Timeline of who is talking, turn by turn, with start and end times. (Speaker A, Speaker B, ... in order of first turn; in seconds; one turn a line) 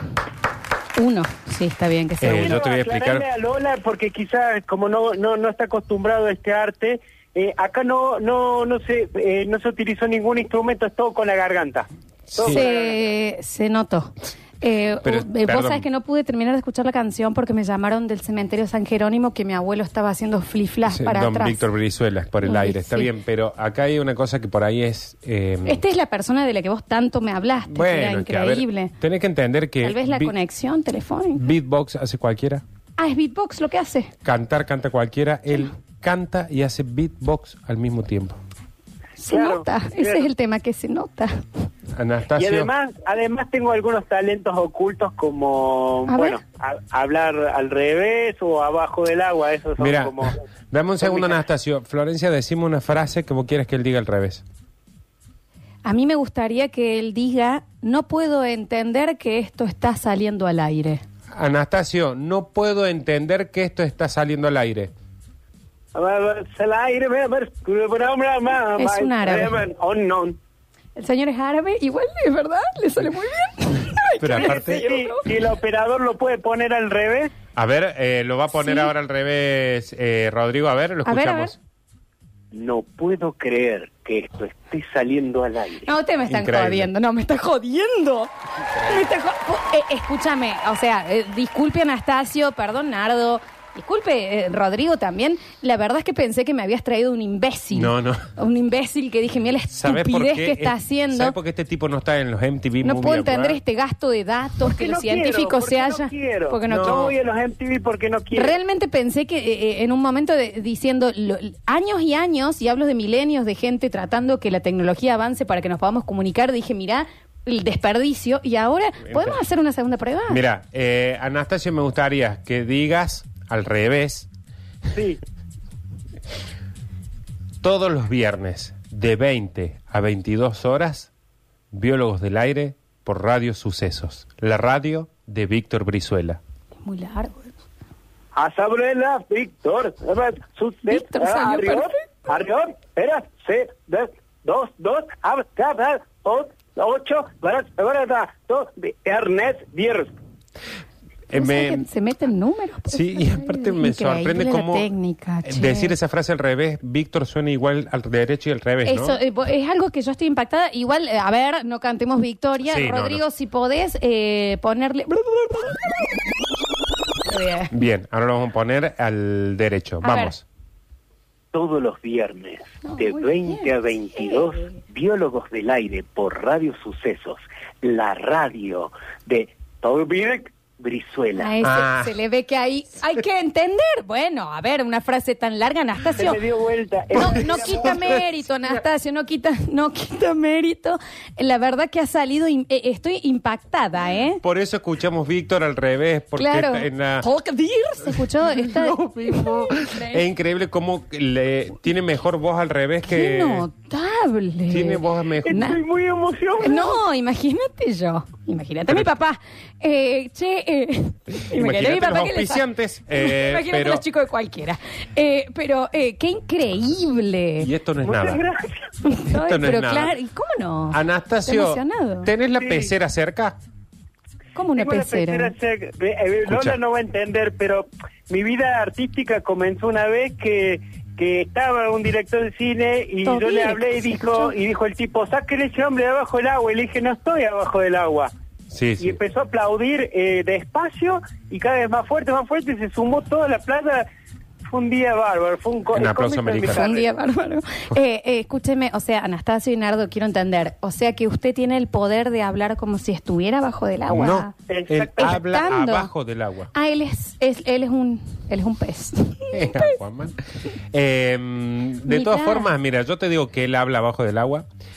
Speaker A: 0.9-2.6
Speaker B: 2.2-3.2
Speaker C: 2.3-13.0
Speaker B: 12.3-12.6
Speaker A: 12.4-21.6
Speaker B: 15.0-15.8
Speaker B: 20.9-25.8
Speaker A: 22.4-23.1
Speaker A: 25.6-28.9
Speaker B: 27.7-30.3
Speaker A: 29.8-31.4
Speaker B: 31.4-32.6
Speaker A: 33.0-34.1
Speaker B: 34.2-38.4
Speaker A: 39.2-41.4
Speaker C: 39.3-40.3
Speaker B: 41.9-42.7
Speaker C: 42.4-50.4
Speaker A: 46.1-46.4
Speaker B: 49.8-54.4
Speaker C: 51.0-51.4
Speaker A: 55.8-61.0
Speaker B: 61.3-64.9
Speaker C: 65.9-70.4
Speaker A: 68.8-69.6
Speaker A: 71.0-75.2
Speaker B: 74.2-74.8
Speaker C: 74.4-77.3
Speaker B: 77.5-81.6
Speaker A: 78.6-78.9
Speaker A: 81.0-81.5
Speaker C: 82.5-85.9
Speaker A: 85.8-101.3
Speaker B: 86.2-86.9
Speaker B: 88.7-89.1
Speaker B: 97.7-98.2
Speaker B: 99.7-103.6
Speaker A: 102.8-107.0
Speaker C: 104.6-108.5
Speaker B: 106.7-107.1
Speaker A: 108.3-120.4
Speaker B: 119.0-119.4
Speaker B: 120.3-124.3
Speaker C: 124.9-125.2
Speaker B: 127.6-131.1
Speaker B: 131.7-136.4
Speaker A: 136.8-137.5
Speaker C: 138.3-150.1
Speaker A: 140.8-141.9
Speaker B: 151.3-151.9
Speaker A: 151.3-155.9
Speaker B: 152.9-154.9
Speaker B: 155.4-159.2
Speaker A: 158.8-166.1
Speaker B: 162.6-163.2
Speaker A: 167.3-167.7
Speaker B: 167.7-170.4
Speaker A: 170.0-170.3
Speaker C: 171.5-181.5
Speaker A: 172.8-174.7
Speaker A: 181.4-186.4
Speaker B: 181.6-182.1
Speaker C: 186.2-188.2
Speaker A: 187.1-194.4
Speaker B: 194.4-197.3
Speaker A: 196.4-200.2
Speaker B: 198.0-203.7
Speaker A: 203.1-205.8
Speaker B: 204.7-205.7
Speaker C: 205.4-207.0
Speaker A: 206.6-217.7
Speaker B: 211.5-214.0
Speaker B: 217.6-218.4
Speaker C: 218.0-218.9
Speaker A: 219.0-222.3
Speaker B: 219.3-220.2
Speaker B: 220.9-223.6
Speaker C: 222.6-222.9
Speaker A: 224.5-225.5
Speaker C: 224.8-238.3
Speaker B: 226.5-226.8
Speaker A: 233.2-234.5
Speaker B: 238.7-239.2
Speaker C: 239.0-244.1
Speaker C: 244.7-247.1
Speaker B: 245.9-246.9
Speaker A: 246.6-254.5
Speaker B: 254.1-256.7
Speaker C: 254.7-255.3
Speaker A: 255.2-256.1
Speaker A: 256.7-259.9
Speaker B: 259.5-260.4
Speaker B: 260.9-264.7
Speaker A: 262.1-262.7